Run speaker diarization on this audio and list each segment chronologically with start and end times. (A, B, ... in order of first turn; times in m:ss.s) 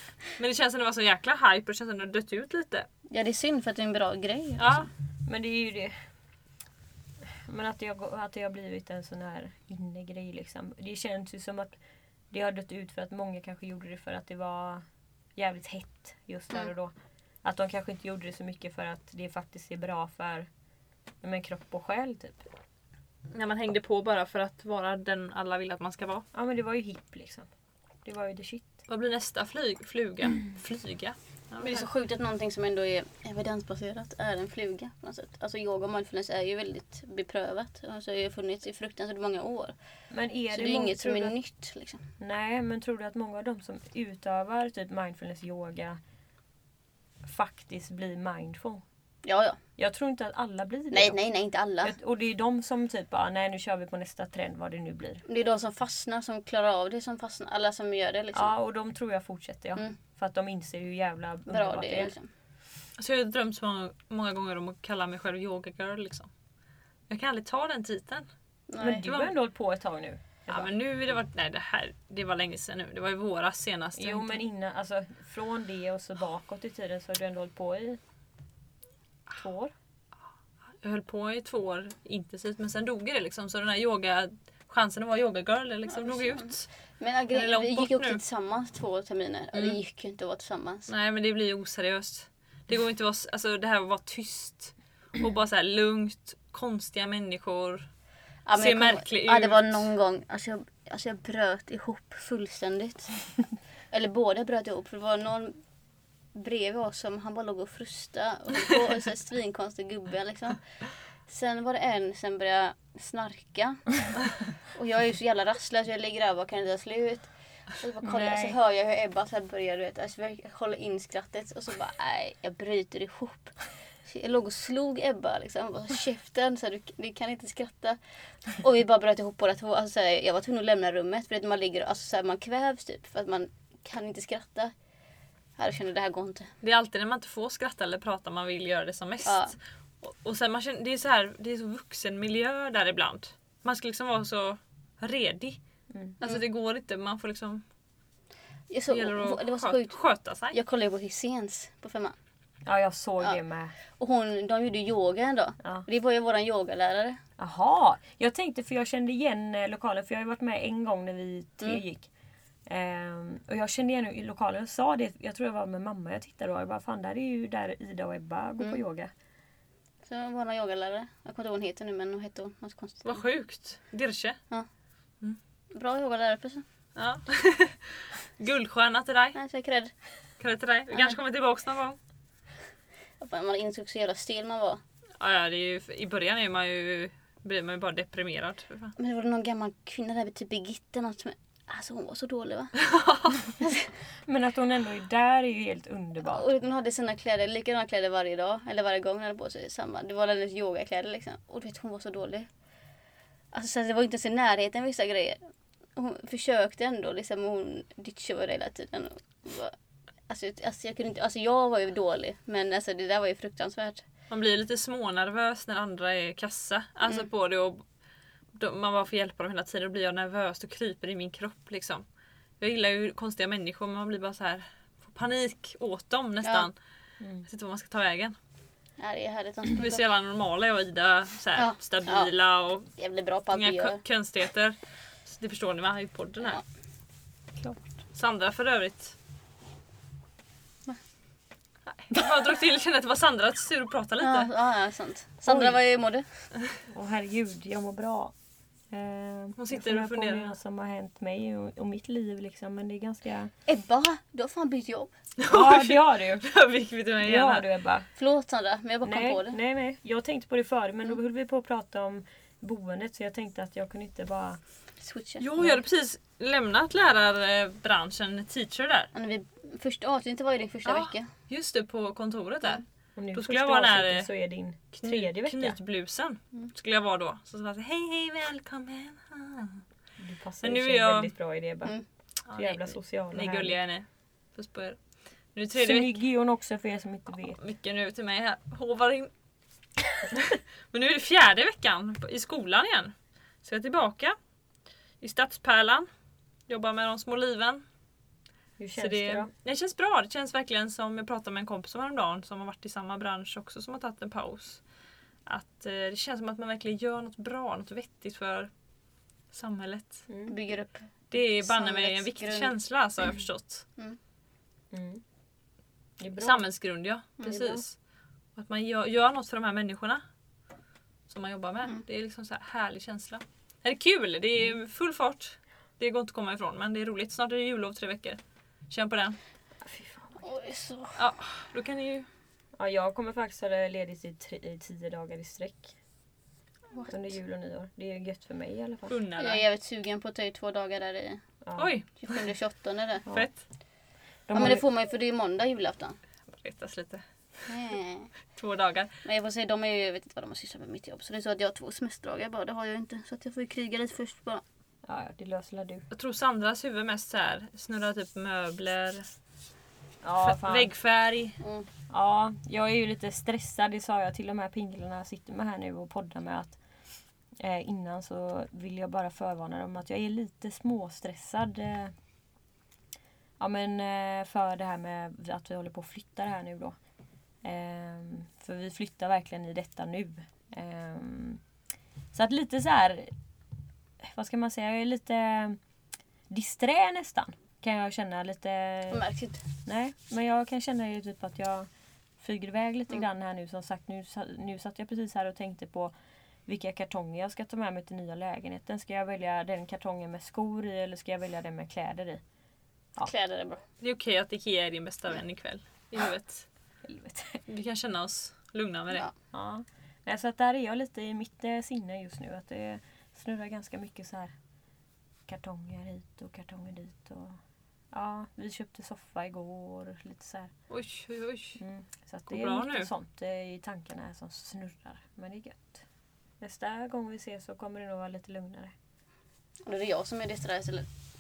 0:00.4-0:02.9 A
0:03.1-0:04.9 B
0:04.6-0:04.9 A
0:05.3-0:06.0 C
0:07.4-0:11.8 C
0:12.3-0:14.8 C
0:15.4-0:16.9 C
0:17.4-0:20.5 C
0:21.2-0:22.4 C
0:23.3-0:26.3 A
0:26.3-0:27.5 C
0:28.0-0:28.8 C
0:28.9-0:31.9 A
0:31.6-0:39.8 B
0:40.1-0:41.3 C
0:40.5-0:42.0 B
0:42.2-0:46.0 C
0:47.2-0:48.8 C
0:49.2-0:49.6 B
0:49.8-0:51.2 C
0:50.9-0:51.9 B
0:51.8-0:55.2 C
0:55.3-0:58.5 B
0:58.3-1:02.1 C
1:01.5-1:02.3 B
1:03.0-1:06.3 A
1:07.1-1:08.3 A
1:08.7-1:09.0 B
1:08.8-1:10.7 C
1:09.0-1:09.3 A
1:10.5-1:14.4 A
1:14.0-1:18.0 C
1:19.3-1:19.7 C
1:20.8-1:26.7 A
1:25.9-1:30.9 B
1:27.3-1:28.2 A
1:30.9-1:37.9 A
1:38.5-1:43.1 B
1:38.6-1:39.9 A
1:43.9-1:45.6 B
1:46.4-1:50.6 B
1:51.3-1:54.1 B
1:54.7-2:08.0 B
1:58.0-1:58.5 C
2:08.5-2:14.7 B
2:15.6-2:16.5 B
2:16.6-2:19.4 A
2:19.2-2:19.5 B
2:20.0-2:25.6 A
2:25.9-2:26.2 C
2:26.2-2:27.6 A
2:28.7-2:30.0 B
2:28.9-2:30.6 A
2:30.5-2:32.2 B
2:32.6-2:33.7 C
2:34.0-2:37.2 B
2:37.4-2:42.1 C
2:42.7-2:49.1 C
2:50.0-2:53.2 B
2:53.0-2:54.4 A
2:55.7-2:56.6 B
2:57.0-2:59.4 A
2:59.4-2:59.9 B
3:00.4-3:02.0 A
3:00.9-3:01.2 B
3:03.2-3:04.8 B
3:05.2-3:09.0 A
3:09.0-3:12.7 B
3:12.8-3:13.4 A
3:13.6-3:13.9 B
3:14.2-3:16.5 C
3:16.2-3:22.5 B
3:23.5-3:25.4 B
3:26.0-3:29.8 B
3:30.3-3:34.0 B
3:34.3-3:37.8 A
3:38.5-3:42.0 A
3:42.6-3:46.7 A
3:47.2-3:47.5 C
3:47.5-3:48.4 A
3:49.0-3:50.0 B
3:49.8-3:52.9 A
3:51.6-3:52.3 B
3:53.0-3:54.0 B
3:53.5-3:56.6 A
3:58.1-3:59.2 A
4:01.9-4:04.5 A
4:04.2-4:06.3 B
4:06.9-4:08.3 C
4:08.9-4:13.5 C
4:09.6-4:10.5 A
4:13.7-4:15.1 B
4:15.4-4:17.7 A
4:15.5-4:16.5 C
4:17.2-4:18.1 C
4:18.2-4:19.6 B
4:19.0-4:24.6 C
4:25.0-4:25.5 B
4:25.4-4:29.1 A
4:29.1-4:31.3 B
4:30.9-4:34.3 A
4:33.2-4:35.8 C
4:34.9-4:39.8 A
4:40.2-4:42.0 C
4:40.6-4:41.3 A
4:42.5-4:45.0 A
4:42.6-4:43.8 C
4:45.5-4:46.1 A
4:45.8-4:47.6 C
4:47.6-4:49.3 A
4:50.3-4:54.4 A
4:55.2-4:56.1 A
4:56.7-4:57.8 A
4:58.8-4:59.5 C
4:59.0-5:04.8 A
5:05.5-5:08.7 A
5:09.5-5:10.3 A
5:10.3-5:10.5 C
5:10.5-5:11.0 B
5:11.3-5:13.9 A
5:11.6-5:12.7 B
5:14.9-5:15.2 C
5:16.2-5:16.6 C
5:16.4-5:17.9 A
5:17.4-5:17.7 B
5:17.5-5:17.8 C
5:18.6-5:20.2 A
5:21.3-5:28.4 A
5:28.9-5:29.4 A
5:29.8-5:30.4 C
5:30.4-5:31.2 B
5:31.2-5:32.3 A
5:32.8-5:36.0 C
5:36.9-5:37.2 B
5:37.1-5:39.1 C
5:39.1-5:39.6 A
5:39.4-5:41.4 B
5:41.6-5:41.9 C
5:41.8-5:42.5 A
5:42.2-5:43.2 B
5:43.3-5:43.6 A
5:44.5-5:44.8 C
5:44.5-5:46.2 B
5:46.5-5:47.7 A
5:47.7-5:48.3 B
5:48.6-5:49.1 A
5:49.2-5:54.6 B
5:55.1-5:56.0 C
5:56.1-5:59.2 A
6:00.2-6:00.9 C
6:00.4-6:01.6 A
6:01.6-6:01.9 B
6:02.1-6:06.8 C
6:07.6-6:12.1 C
6:13.6-6:17.0 C
6:17.6-6:21.6 C
6:22.3-6:23.3 C
6:24.2-6:25.8 C
6:26.5-6:29.2 C
6:29.1-6:29.6 B
6:29.8-6:31.9 C
6:32.4-6:36.1 C
6:36.7-6:42.4 C
6:43.2-6:43.8 B
6:44.0-6:46.6 A
6:47.0-6:47.6 C
6:47.7-6:49.3 A
6:49.5-6:54.5 C
6:55.5-6:57.6 C
6:58.1-7:00.7 C
7:00.9-7:01.8 A
7:01.8-7:06.0 C
7:02.5-7:03.1 A
7:06.6-7:08.9 C
7:09.9-7:11.1 B